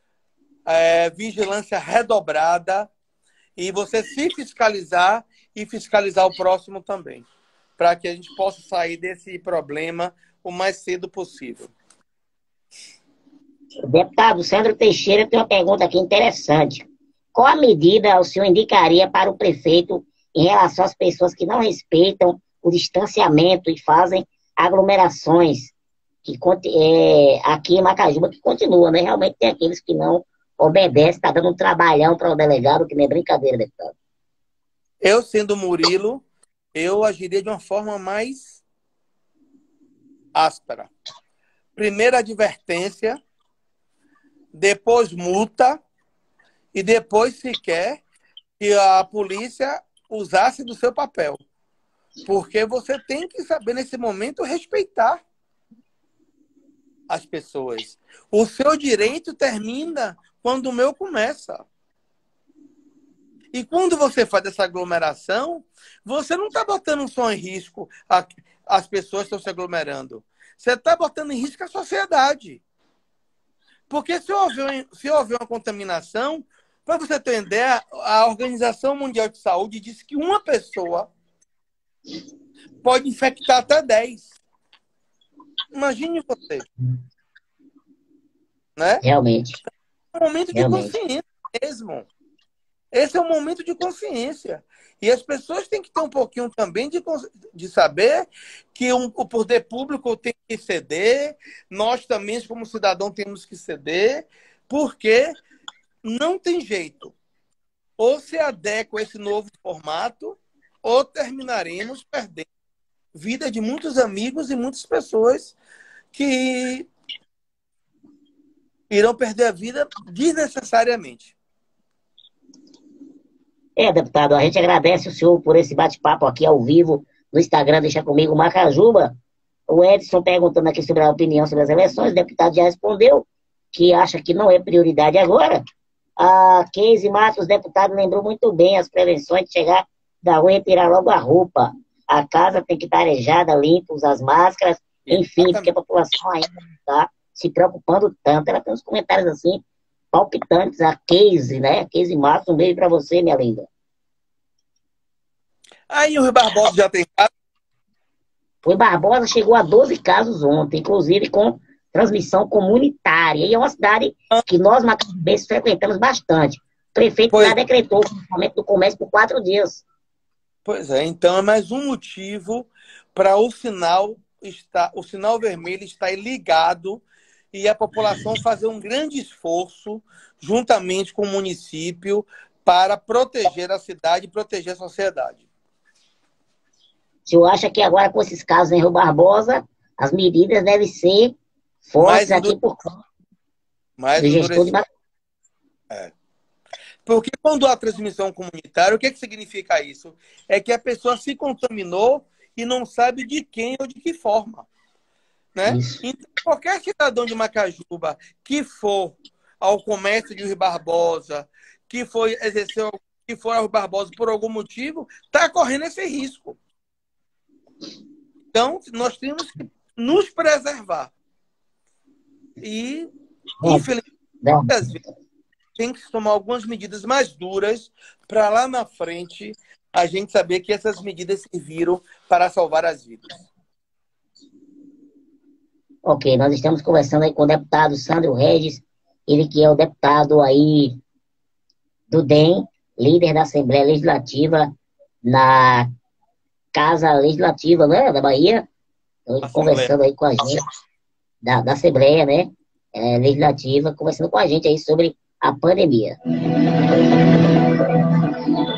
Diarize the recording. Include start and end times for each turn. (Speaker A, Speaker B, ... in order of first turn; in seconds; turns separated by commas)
Speaker A: 0.7-2.9, Speaker A: 3.6-7.2, Speaker A: 7.8-11.7, Speaker B: 13.9-25.7, Speaker B: 26.2-33.9, Speaker A: 35.0-38.6, Speaker A: 40.3-40.9, Speaker A: 41.8-43.2, Speaker A: 44.5-45.8, Speaker A: 46.7-48.0, Speaker A: 48.6-51.4, Speaker A: 52.3-55.2, Speaker A: 57.1-61.6, Speaker A: 63.5-72.6, Speaker A: 73.9-81.1, Speaker A: 82.8-84.3, Speaker A: 85.7-86.7, Speaker A: 88.8-89.0, Speaker B: 89.0-89.6, Speaker A: 90.1-92.0, Speaker B: 90.5-90.9, Speaker A: 92.9-105.3, Speaker A: 106.0-107.1, Speaker A: 108.0-112.5, Speaker A: 113.1-115.5, Speaker A: 116.1-116.9, Speaker A: 118.9-121.3, Speaker B: 123.8-129.1, Speaker B: 129.7-135.6, Speaker B: 136.2-149.6, Speaker A: 145.1-145.7, Speaker B: 150.1-153.7, Speaker A: 155.9-157.3, Speaker B: 158.6-169.8, Speaker A: 167.3-167.6, Speaker A: 170.7-185.4, Speaker B: 187.3-191.3, Speaker B: 191.9-192.9, Speaker A: 192.0-192.6, Speaker A: 194.0-194.8, Speaker B: 194.2-194.8, Speaker A: 197.1-204.7, Speaker A: 205.5-216.6, Speaker B: 205.6-206.0, Speaker A: 218.5-221.1, Speaker A: 222.6-223.1, Speaker B: 223.6-223.9, Speaker A: 223.6-224.0, Speaker B: 224.4-224.9, Speaker A: 224.7-225.0, Speaker A: 225.8-233.5, Speaker B: 236.0-240.9, Speaker B: 242.1-244.7, Speaker B: 245.2-245.9, Speaker B: 246.7-248.7, Speaker B: 249.3-250.6, Speaker A: 249.4-249.9, Speaker B: 251.4-256.1